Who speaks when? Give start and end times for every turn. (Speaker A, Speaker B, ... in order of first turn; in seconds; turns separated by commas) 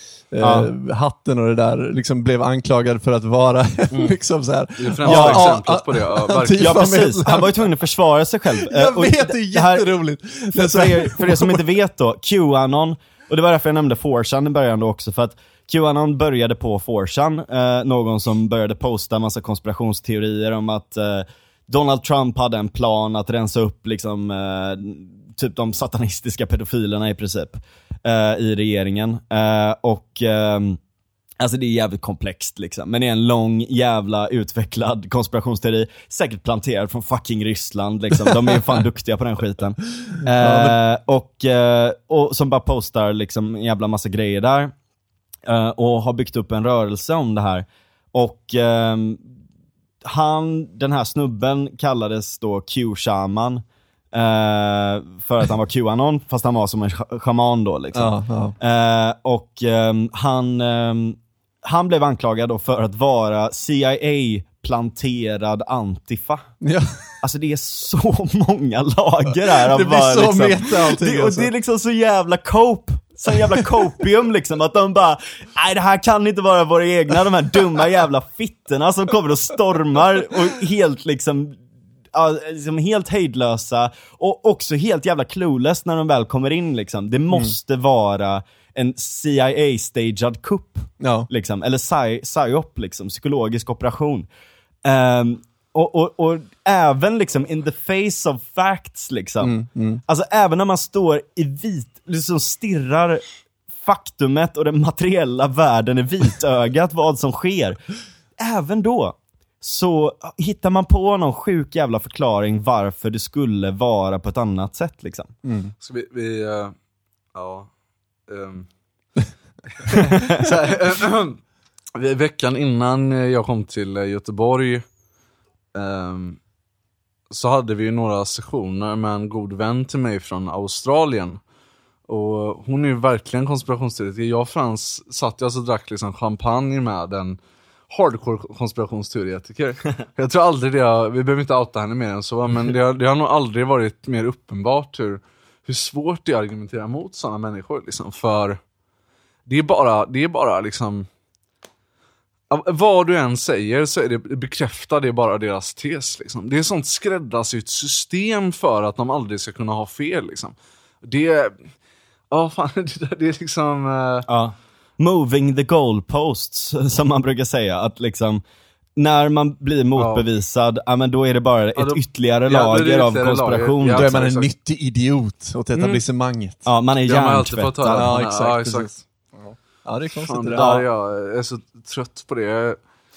Speaker A: 0.3-7.7, Speaker B: 0.4-0.7, Speaker C: 4.8-7.0, Speaker B: 5.0-5.5, Speaker B: 6.6-9.9, Speaker A: 8.5-11.6, Speaker B: 10.5-30.8, Speaker B: 31.4-44.7, Speaker A: 40.4-40.7, Speaker B: 45.5-49.2, Speaker B: 50.0-53.6, Speaker B: 54.1-66.5, Speaker A: 58.0-58.6, Speaker A: 66.6-67.1, Speaker B: 67.2-94.3, Speaker A: 69.5-71.5, Speaker A: 91.0-91.3, Speaker B: 94.8-103.2, Speaker A: 99.4-100.0, Speaker B: 103.7-107.8, Speaker B: 108.4-115.3, Speaker A: 115.5-115.7, Speaker C: 115.8-116.7, Speaker C: 117.3-117.7, Speaker C: 118.3-118.7, Speaker C: 119.8-121.4, Speaker B: 120.1-120.4, Speaker C: 122.0-124.8, Speaker C: 125.8-126.4, Speaker C: 127.3-131.4, Speaker C: 132.1-137.4, Speaker C: 137.9-148.6, Speaker C: 149.5-151.1, Speaker C: 152.5-161.6, Speaker C: 162.3-164.3, Speaker B: 164.3-168.4, Speaker B: 169.0-174.2, Speaker C: 169.9-170.2, Speaker C: 171.8-174.5, Speaker A: 173.9-176.6, Speaker B: 176.7-178.2, Speaker C: 177.1-179.0, Speaker A: 177.9-178.9, Speaker A: 179.5-180.7, Speaker C: 180.3-182.8, Speaker B: 180.6-180.8